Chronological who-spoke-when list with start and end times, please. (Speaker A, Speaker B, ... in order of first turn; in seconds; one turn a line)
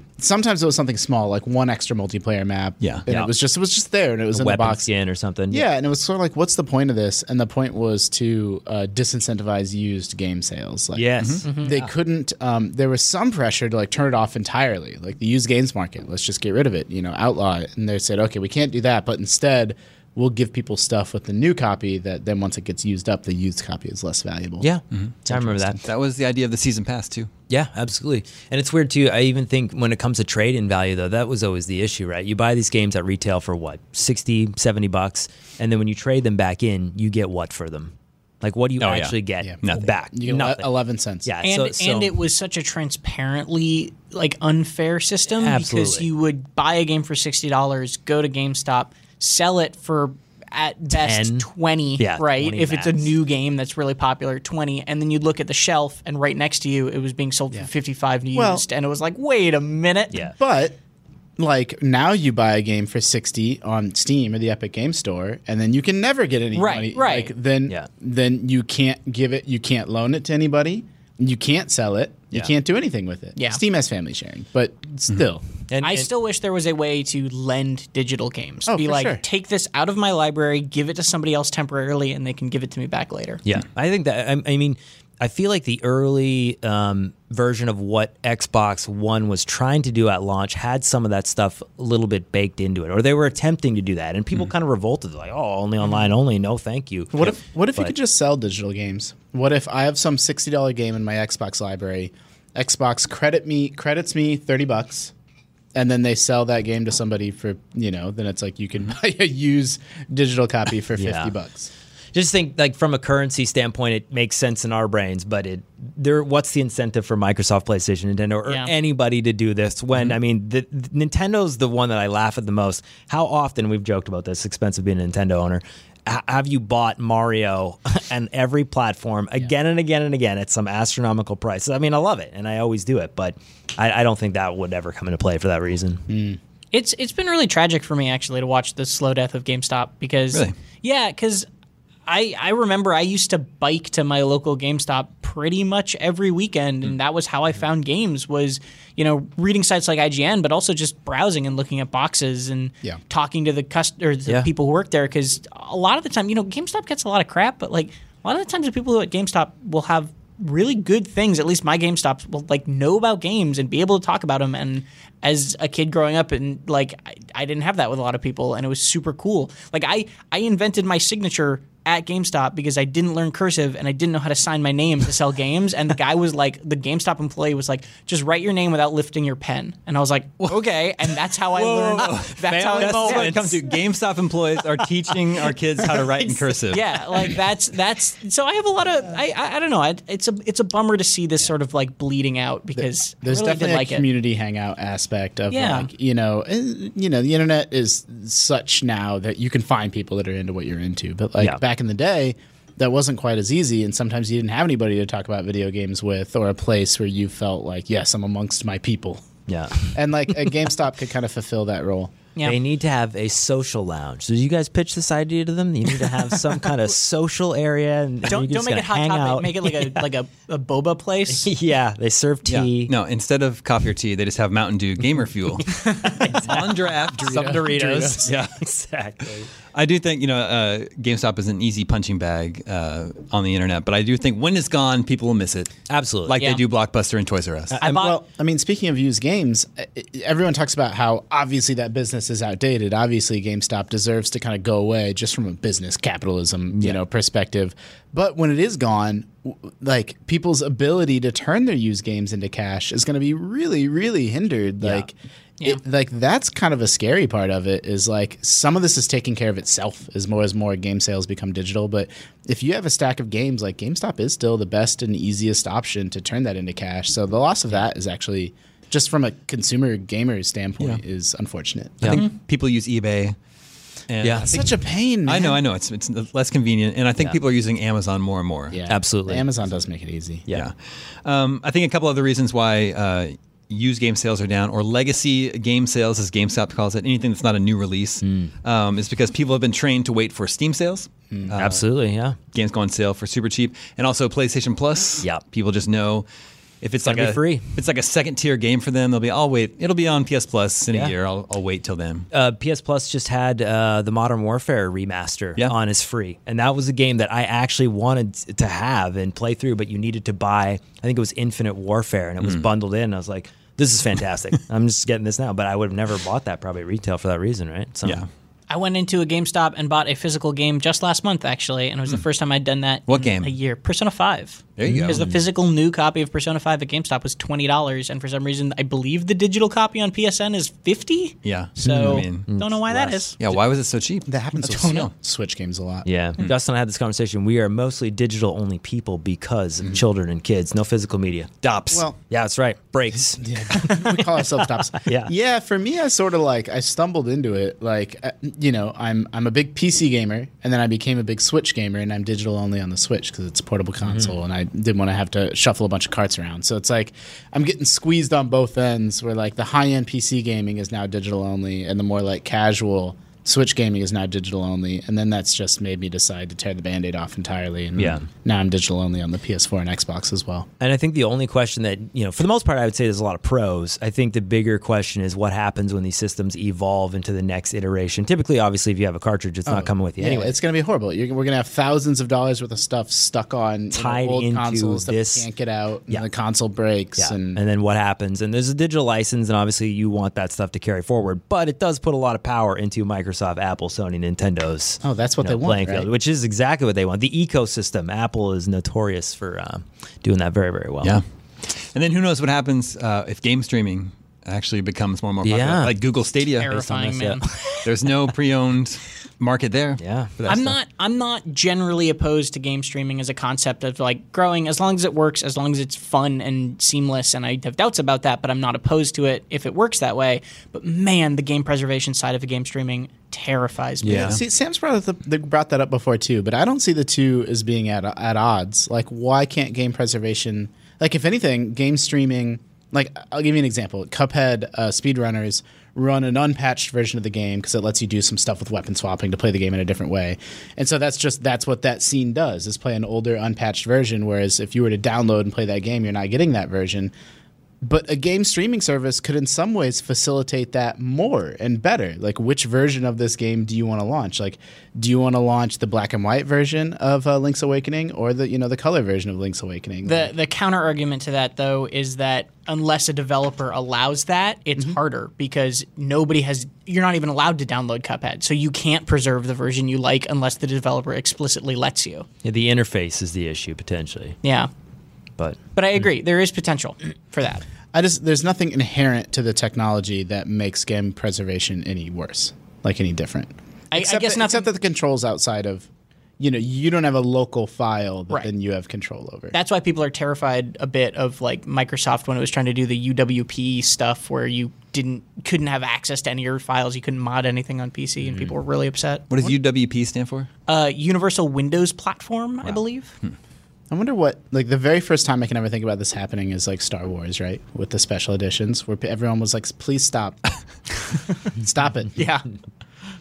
Speaker A: 0.2-4.9
Speaker B: 4.3-5.6
Speaker A: 5.5-24.7
Speaker B: 10.9-11.6
Speaker C: 11.2-11.9
Speaker D: 11.4-11.7
Speaker B: 24.6-25.8
Speaker A: 25.2-25.8
Speaker C: 25.8-27.3
Speaker B: 27.5-40.7
Speaker C: 38.8-39.9
Speaker A: 40.1-41.3
Speaker B: 41.2-42.2
Speaker D: 41.4-60.2
Speaker B: 45.3-46.1
Speaker B: 50.9-53.1
Speaker A: 58.3-58.6
Speaker A: 60.4-60.8
Speaker A: 61.4-75.4
Speaker D: 66.5-67.3
Speaker B: 75.7-76.1
Speaker D: 75.8-83.4
Speaker A: 78.7-79.2
Speaker B: 83.4-97.9
Speaker A: 97.1-105.1
Speaker A: 105.7-111.7
Speaker B: 111.0-111.3
Speaker B: 112.1-136.1
Speaker A: 136.1-136.4
Speaker D: 136.7-141.5
Speaker D: 142.1-183.5
Speaker C: 180.4-187.2
Speaker B: 182.4-183.6
Speaker D: 186.7-194.0
Speaker A: 192.8-209.2
Speaker D: 195.5-195.9
Speaker B: 209.5-209.9
Speaker A: 209.8-212.1
Speaker B: 212.4-220.1
Speaker D: 218.2-221.5
Speaker B: 221.3-222.9
Speaker C: 222.4-228.6
Speaker B: 225.7-229.5
Speaker A: 227.2-228.3
Speaker C: 229.7-237.8
Speaker B: 235.9-236.4
Speaker B: 237.7-238.1
Speaker A: 237.8-272.2
Speaker D: 237.8-238.1
Speaker B: 254.8-255.1
Speaker C: 272.0-273.4
Speaker C: 274.1-274.7
Speaker B: 274.2-274.5
Speaker A: 274.4-275.6
Speaker C: 275.2-278.8
Speaker A: 278.7-280.4
Speaker B: 278.9-279.4
Speaker C: 281.2-291.8
Speaker B: 288.2-288.5
Speaker B: 291.5-292.4
Speaker C: 292.5-296.2
Speaker C: 296.8-302.3
Speaker B: 297.0-297.7
Speaker B: 302.3-318.2
Speaker D: 318.7-333.5
Speaker C: 323.1-323.5
Speaker C: 324.8-325.2
Speaker B: 324.8-325.4
Speaker C: 331.4-332.5
Speaker B: 331.8-333.3
Speaker C: 333.4-335.1
Speaker A: 334.3-336.1
Speaker B: 336.0-341.5
Speaker C: 341.6-342.1
Speaker A: 341.9-342.2
Speaker B: 342.3-344.2
Speaker A: 343.4-370.7
Speaker B: 345.0-345.3
Speaker B: 354.0-354.3
Speaker B: 368.0-368.2
Speaker B: 370.8-380.5
Speaker A: 379.7-387.6
Speaker B: 383.9-385.5
Speaker B: 387.2-401.2
Speaker A: 395.0-396.1
Speaker C: 401.0-406.7
Speaker B: 405.4-405.9
Speaker D: 406.6-407.4
Speaker B: 406.7-407.9
Speaker C: 407.8-410.7
Speaker B: 410.0-410.5
Speaker D: 410.5-424.4
Speaker B: 424.0-424.4
Speaker A: 424.1-447.1
Speaker C: 424.1-424.4
Speaker A: 447.8-460.3
Speaker D: 460.1-472.2
Speaker B: 472.4-474.4
Speaker D: 474.4-474.7
Speaker D: 475.7-477.6
Speaker A: 477.9-485.9
Speaker D: 483.9-484.7
Speaker A: 486.4-489.6
Speaker D: 489.5-499.2
Speaker C: 499.3-500.5
Speaker D: 500.7-503.1
Speaker A: 503.9-510.4
Speaker A: 511.5-512.3
Speaker D: 512.2-512.4